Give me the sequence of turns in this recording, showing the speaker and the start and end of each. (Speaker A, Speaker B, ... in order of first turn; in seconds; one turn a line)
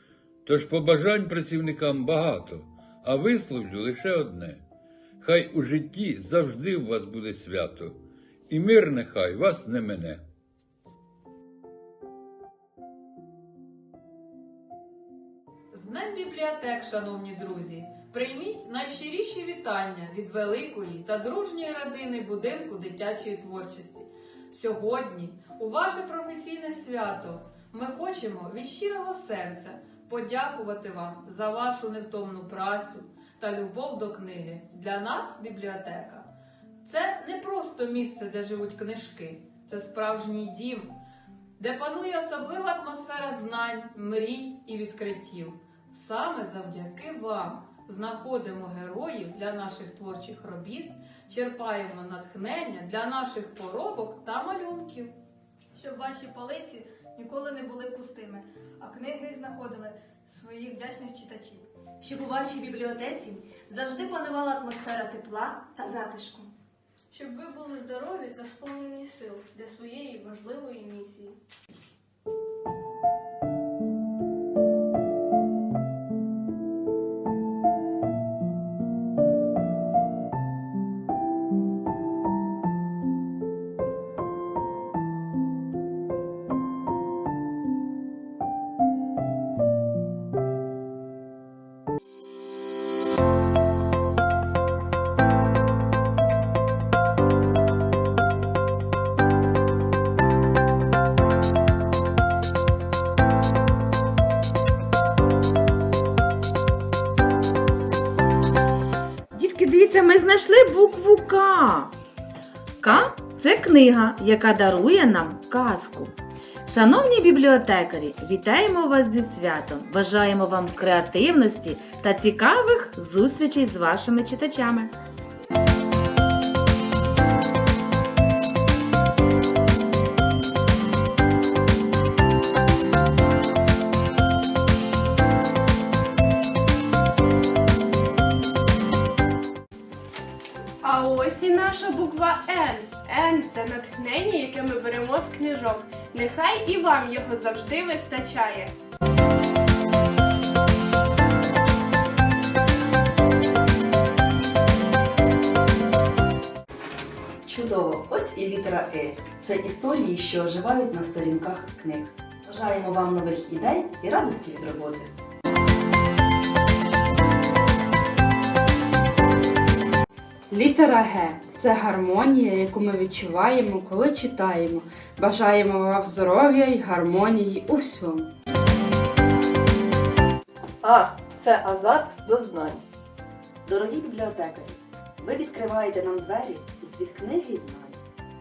Speaker A: 0.5-4.6
Speaker A: 5.2-8.0
Speaker A: 8.5-10.2
Speaker B: 15.7-36.3
Speaker B: 36.9-41.0
Speaker B: 41.6-55.2
Speaker C: 55.8-61.7
Speaker D: 62.0-66.5
Speaker C: 67.1-71.4
Speaker E: 109.3-111.9
Speaker E: 112.8-116.1
Speaker E: 116.7-124.9
Speaker F: 140.8-148.7
Speaker G: 157.4-165.1
Speaker H: 170.5-178.3
Speaker I: 180.8-182.8
Speaker G: 183.7-188.0